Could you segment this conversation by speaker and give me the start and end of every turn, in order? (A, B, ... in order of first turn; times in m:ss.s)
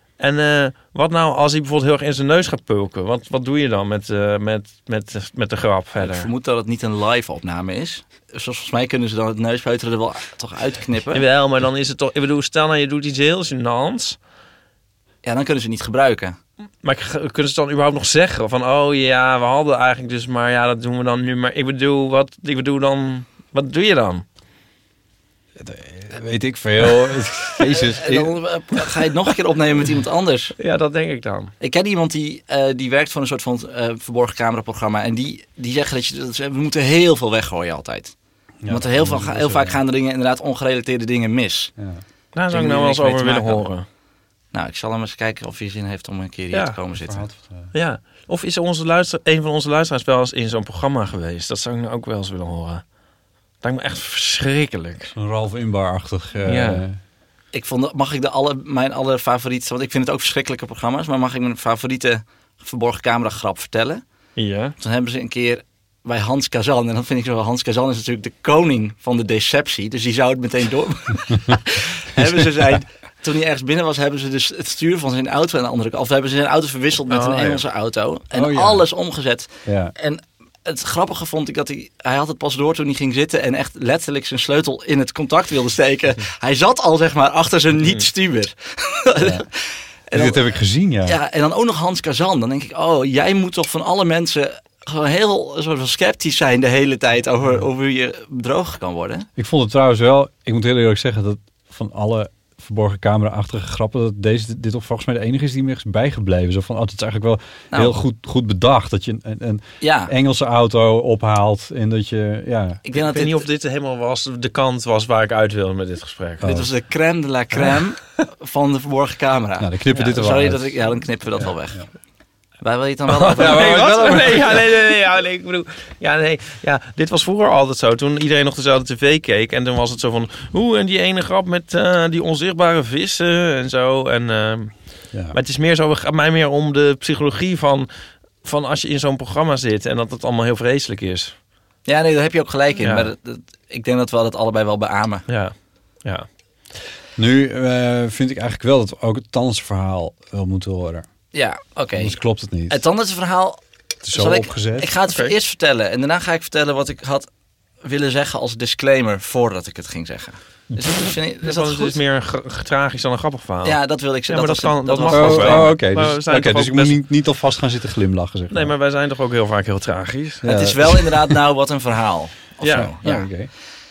0:00.2-0:06.3 A
0:06.0-0:11.3 B
0:11.1-0:14.2 A
0:15.2-0:16.4 B
0:16.8-0:24.2 A
0:25.6-0:28.4 C
0:27.7-0:30.5 B
0:30.6-0:31.5 A
0:31.6-0:38.1 B
0:38.6-0:39.8 C
0:38.7-0:41.7 B
0:41.8-0:42.0 C
0:42.4-0:43.9 A
0:42.5-0:43.7 B
0:44.5-0:47.3 B
0:46.5-0:46.8 A
0:47.0-0:47.7 C
0:47.7-0:52.8 A
0:53.6-0:55.1 A
0:55.1-0:57.0 C
0:56.4-0:56.8 A
0:57.5-1:04.0 B
1:04.4-1:04.8 A
1:04.8-1:29.5 B
1:17.1-1:17.6 A
1:18.3-1:18.9 C
1:19.6-1:19.9 C
1:29.2-1:29.5 C
1:30.1-1:30.5 B
1:30.1-1:31.2 C
1:31.0-1:39.3 B
1:39.4-1:52.8 C
1:49.8-1:50.1 B
1:52.8-1:53.5 B
1:52.9-1:56.5 A
1:56.4-1:56.7 C
1:56.4-2:01.9 B
1:59.6-2:01.8 C
1:59.9-2:00.2 A
2:02.6-2:04.3 B
2:03.1-2:17.9 A
2:03.4-2:04.6 C
2:18.4-2:21.3 A
2:21.9-2:25.2 B
2:22.8-2:23.1 A
2:25.3-2:26.3 A
2:27.2-2:31.1 C
2:31.3-2:32.2 B
2:32.0-2:32.8 C
2:32.7-2:33.6 B
2:34.0-2:34.9 C
2:34.1-2:37.3 B
2:37.8-2:42.0 B
2:41.4-2:47.0 A
2:43.6-2:45.8 B
2:45.1-2:48.7 C
2:48.5-2:50.5 A
2:50.4-2:51.3 C
2:50.4-2:53.3 B
2:52.6-2:52.9 A
2:52.7-2:53.5 C